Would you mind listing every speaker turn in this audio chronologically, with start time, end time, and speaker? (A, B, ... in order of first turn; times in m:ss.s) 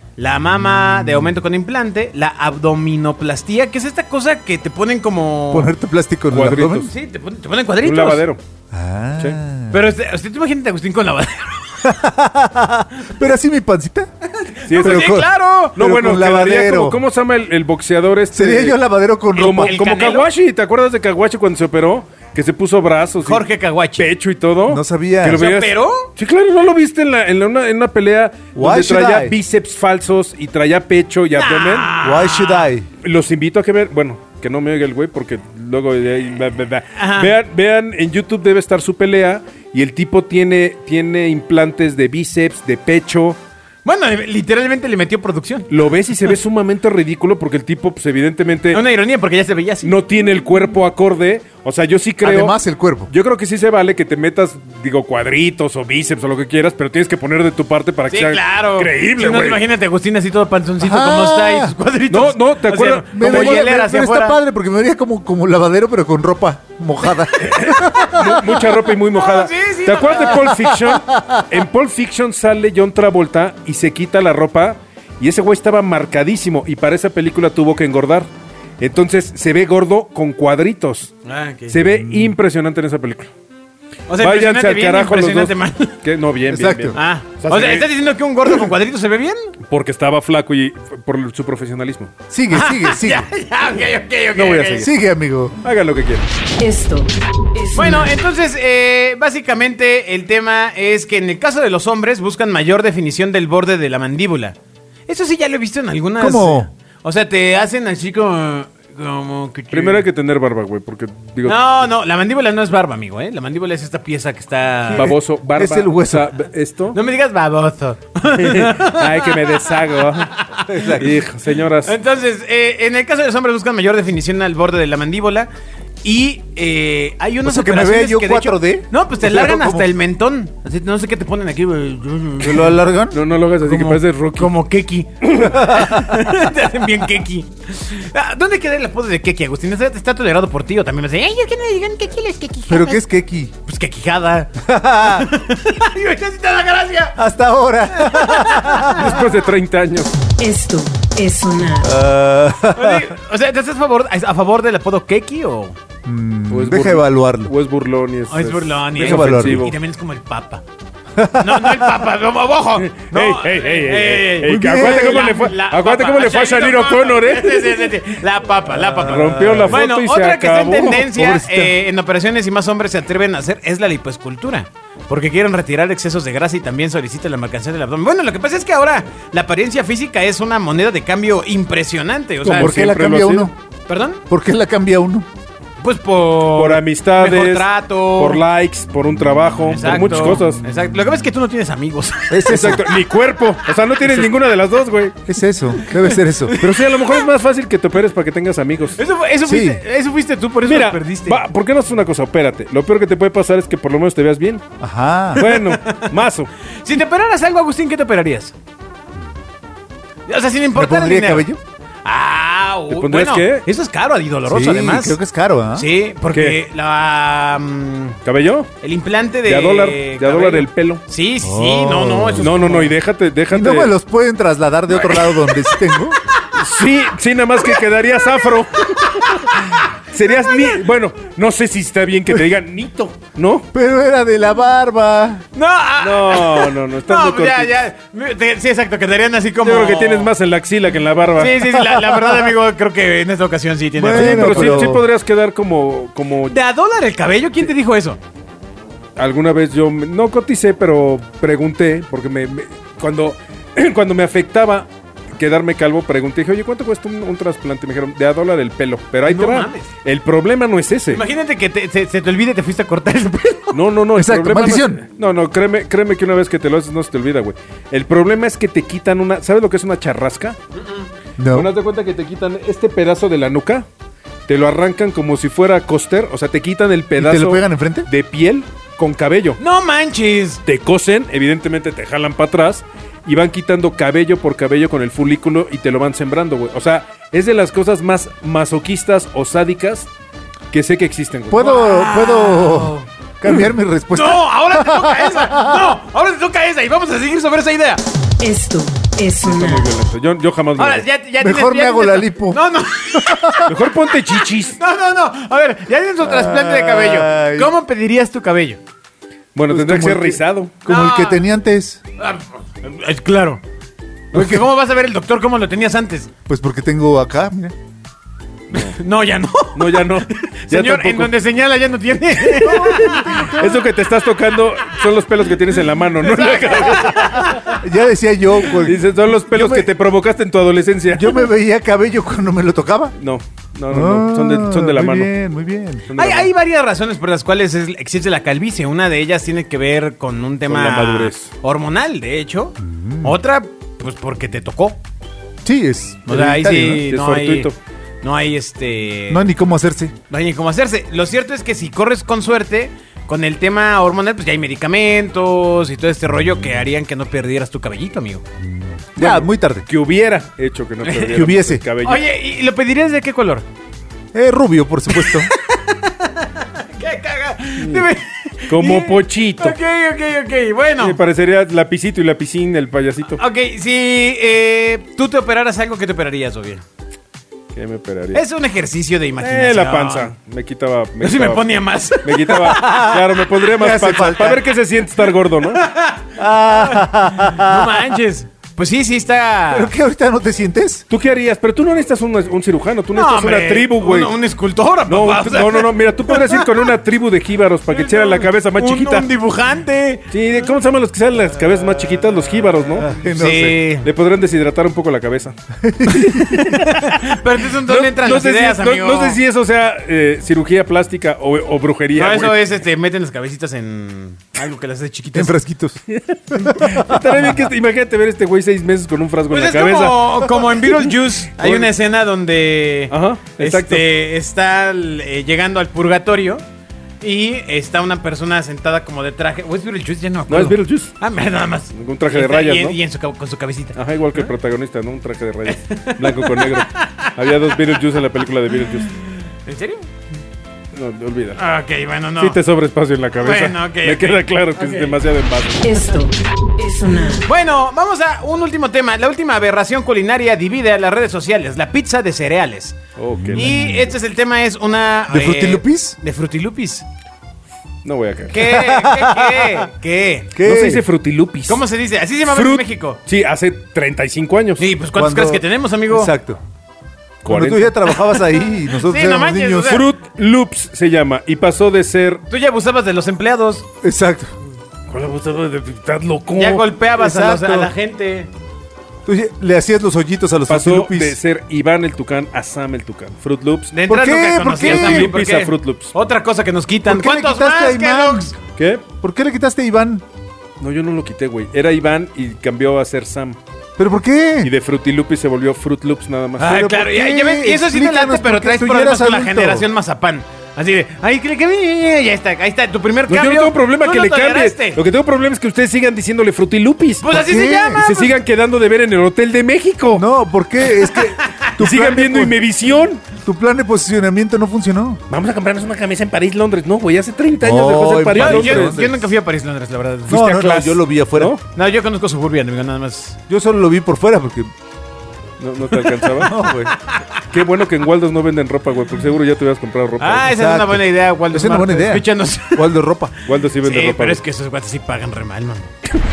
0:00.2-0:05.7 A
0:05.5-0:06.9 B
0:06.3-0:06.9 C
0:06.8-0:08.2 A
0:07.8-0:08.4 C
0:08.7-0:09.8 B
0:09.7-0:11.9 A
0:11.8-0:14.1 B
0:14.3-0:15.8 A
0:14.7-0:18.8 C
0:14.8-0:17.0 B
0:18.3-0:19.8 B
0:19.3-0:23.4 C
0:19.4-0:20.3 A
0:23.2-0:24.1 A
0:24.0-0:32.0 C
0:24.7-0:25.5 B
0:25.3-0:26.1 A
0:28.6-0:29.4 B
0:31.4-0:32.7 A
0:32.0-0:32.9 B
0:33.0-0:43.4 C
0:37.0-0:37.3 A
0:43.8-0:45.7 A
0:45.7-0:48.8 C
0:48.7-0:49.9 A
0:49.8-0:59.7 C
0:52.2-0:53.1 B
0:58.1-1:04.4 A
1:00.8-1:01.7 B
1:02.1-1:03.7 C
1:03.1-1:08.0 B
1:07.4-1:18.3 C
1:07.5-1:08.4 A
1:09.1-1:10.7 A
1:10.9-1:11.3 B
1:18.8-1:21.2 C
1:21.2-1:21.8 A
1:21.7-1:23.3 C
1:22.0-1:22.3 B
1:24.1-1:26.0 A
1:24.2-1:27.9 C
1:26.5-1:27.0 B
1:27.0-1:29.5 A
1:29.7-1:32.1 C
1:32.3-1:33.3 B
1:32.5-1:34.9 A
1:34.3-1:34.9 C
1:34.8-1:35.6 B
1:35.6-1:36.3 C
1:36.6-1:38.1 D
1:37.8-1:44.6 A
1:45.1-1:50.0 A
1:46.2-1:46.7 B
1:49.7-1:51.8 C
1:51.4-1:55.1 A
1:54.9-1:56.3 B
1:54.9-1:57.0 C
1:56.9-2:01.0 A
1:58.3-2:00.3 C
2:00.7-2:01.2 B
2:00.9-2:01.9 C
2:01.8-2:05.5 A
2:06.0-2:12.8 A
2:07.4-2:09.9 B
2:12.4-2:13.2 B
2:13.1-2:14.5 C
2:13.6-2:23.0 A
2:15.4-2:16.2 B
2:22.7-2:23.5 B
2:23.6-2:27.2 A
2:24.6-2:25.3 B
2:27.2-2:29.1 B
2:27.9-2:29.2 A
2:28.9-2:30.1 C
2:30.4-2:31.9 D
2:31.8-2:33.1 B
2:32.7-2:35.8 A
2:36.0-2:37.5 B
2:36.5-2:39.8 C
2:38.3-2:40.6 A
2:39.0-2:39.7 B
2:41.2-2:41.9 B
2:41.4-3:02.8 A
2:42.8-2:48.0 C
2:44.5-2:45.3 B
2:48.7-2:49.8 B
2:49.0-2:51.1 C
2:51.1-2:51.7 B
3:02.4-3:03.6 B
3:02.6-3:03.5 C
3:03.9-3:04.2 A
3:04.3-3:05.3 B
3:05.8-3:08.4 A
3:06.5-3:10.6 C
3:09.7-3:12.9 A
3:12.3-3:12.8 B
3:12.5-3:15.2 C
3:14.0-3:14.3 A
3:15.3-3:16.6 B
3:15.9-3:17.2 A
3:16.5-3:19.0 C
3:19.0-3:21.4 A
3:19.4-3:19.8 B
3:20.7-3:24.6 C
3:24.8-3:25.4 B
3:25.4-3:26.5 C
3:25.4-3:26.1 A
3:26.8-3:28.5 A
3:30.3-3:31.5 A
3:30.8-3:31.6 B
3:32.0-3:35.2 A
3:32.9-3:33.6 C
3:34.5-3:35.9 B
3:35.8-3:38.2 A
3:36.3-3:36.6 C
3:38.2-3:38.7 C
3:38.8-3:42.9 A
3:39.4-3:41.0 C
3:41.4-3:42.7 B
3:42.4-3:43.9 C
3:43.5-3:46.2 B
3:44.9-3:46.8 A
3:46.6-3:53.7 C
3:48.4-3:50.0 A
3:53.7-3:55.4 B
3:55.5-4:00.3 A
3:56.0-3:57.7 C
3:59.6-4:01.8 C
4:01.4-4:04.8 A
4:04.0-4:05.0 B
4:04.1-4:06.6 C
4:06.5-4:08.2 A
4:09.2-4:21.2 C
4:19.3-4:19.9 A
4:21.1-4:23.8 A
4:23.7-4:30.6 C
4:24.2-4:25.0 B
4:30.8-4:31.1 A
4:31.4-4:31.7 B
4:31.5-4:33.9 C
4:34.5-4:39.6 C
4:37.2-4:38.1 B
4:39.6-4:40.6 A
4:40.7-4:50.1 C
4:50.7-4:51.6 C
4:51.5-4:55.9 B
4:51.5-4:53.1 A
4:54.1-4:58.0 A
4:58.4-4:59.9 D
4:59.4-5:01.0 C
5:00.8-5:08.8 A
5:01.4-5:02.6 B
5:03.1-5:03.7 B
5:03.7-5:04.8 C
5:06.2-5:07.7 B
5:09.6-5:10.8 C
5:09.7-5:12.0 B
5:10.9-5:11.4 A
5:12.2-5:13.6 A
5:14.3-5:14.6 B
5:14.3-5:16.3 A
5:16.5-5:17.7 B
5:18.7-5:23.6 A
5:19.8-5:21.3 C
5:22.6-5:23.8 B
5:22.7-5:27.4 C
5:26.2-5:27.8 A
5:27.6-5:29.9 B
5:28.8-5:31.5 C
5:31.1-5:33.2 B
5:33.2-5:35.3 C
5:33.9-5:36.1 B
5:36.0-5:36.5 C
5:36.2-5:45.0 A
5:40.7-5:41.5 C
5:42.8-5:43.4 B
5:45.6-5:47.0 B
5:46.3-5:47.7 A
5:46.7-5:47.8 C
5:48.2-5:49.5 A
5:49.3-5:50.1 B
5:50.3-5:58.4 A
5:58.6-5:59.9 B
5:59.2-6:02.2 C
6:01.0-6:01.3 A
6:01.3-6:01.8 B
6:02.0-6:03.7 A
6:04.3-6:05.5 B
6:05.1-6:11.2 A
6:07.8-6:08.1 C
6:08.7-6:09.8 C
6:11.0-6:13.4 C
6:13.4-6:16.8 A
6:17.7-6:18.4 C
6:18.3-6:20.3 A
6:19.4-6:25.8 C
6:21.2-6:23.3 A
6:23.8-6:24.7 B
6:25.7-6:29.9 A
6:26.4-6:28.2 B
6:29.7-6:31.0 B
6:31.1-6:34.4 C
6:33.1-6:36.8 A
6:35.1-6:39.3 C
6:38.0-6:40.3 A
6:40.3-6:43.2 C
6:43.1-6:43.8 B
6:43.3-6:44.1 A
6:44.0-6:45.6 C
6:45.8-6:46.8 B
6:46.1-6:47.2 C
6:46.6-6:49.4 A
6:47.7-6:52.6 C
6:52.2-6:55.6 A
6:55.3-6:56.0 B
6:56.1-7:00.9 C
6:56.5-6:57.6 B
6:59.5-7:06.6 A
7:01.6-7:01.9 C
7:03.1-7:04.1 C
7:07.2-7:14.5 A
7:10.5-7:11.2 C
7:11.9-7:13.0 C
7:14.0-7:19.1 C
7:15.7-7:18.0 A
7:19.6-7:20.1 A
7:20.9-7:21.6 C
7:21.6-7:22.6 A
7:22.4-7:25.9 C
7:23.4-7:25.2 A
7:25.8-7:27.5 D
7:27.4-7:33.0 A
7:33.2-7:33.7 C
7:33.4-7:34.1 B
7:33.5-7:37.0 A
7:35.3-7:36.2 B
7:38.0-7:38.7 C
7:38.5-7:40.5 A
7:38.7-7:39.8 B
7:40.5-7:41.0 B
7:40.6-7:41.8 C
7:41.7-7:43.2 A
7:42.4-7:44.9 C
7:44.8-7:46.3 A
7:45.1-7:46.6 B
7:47.4-7:48.1 C
7:47.4-7:50.0 B
7:48.9-7:50.0 A
7:49.8-7:52.4 C
7:52.5-7:53.8 A
7:54.0-7:54.5 B
7:55.1-7:56.9 C
7:56.5-7:58.5 A
7:57.2-7:57.9 B
7:59.3-8:01.4 B
8:00.7-8:04.0 C
8:03.9-8:08.6 A
8:04.1-8:05.3 B
8:04.8-8:06.1 C
8:07.1-8:08.5 B
8:08.8-8:09.0 C
8:09.2-8:10.2 B
8:10.8-8:13.6 C
8:14.0-8:14.7 B
8:14.6-8:16.7 C
8:16.6-8:25.0 A
8:16.6-8:19.9 B
8:23.3-8:30.3 C
8:27.2-8:28.3 A
8:27.3-8:28.1 B
8:30.1-8:32.6 B
8:31.0-8:31.7 A
8:31.8-8:33.2 C
8:33.4-8:35.2 B
8:35.3-8:39.1 C
8:37.6-8:39.1 B
8:38.3-8:41.0 A
8:40.3-8:41.6 B
8:41.7-8:43.4 A
8:43.5-8:44.7 B
8:45.6-8:46.6 C
8:46.4-8:46.9 B
8:46.9-8:47.4 A
8:47.5-8:50.5 C
8:50.2-8:52.8 A
8:50.5-8:53.4 B
8:53.5-8:54.4 C
8:53.8-8:55.9 A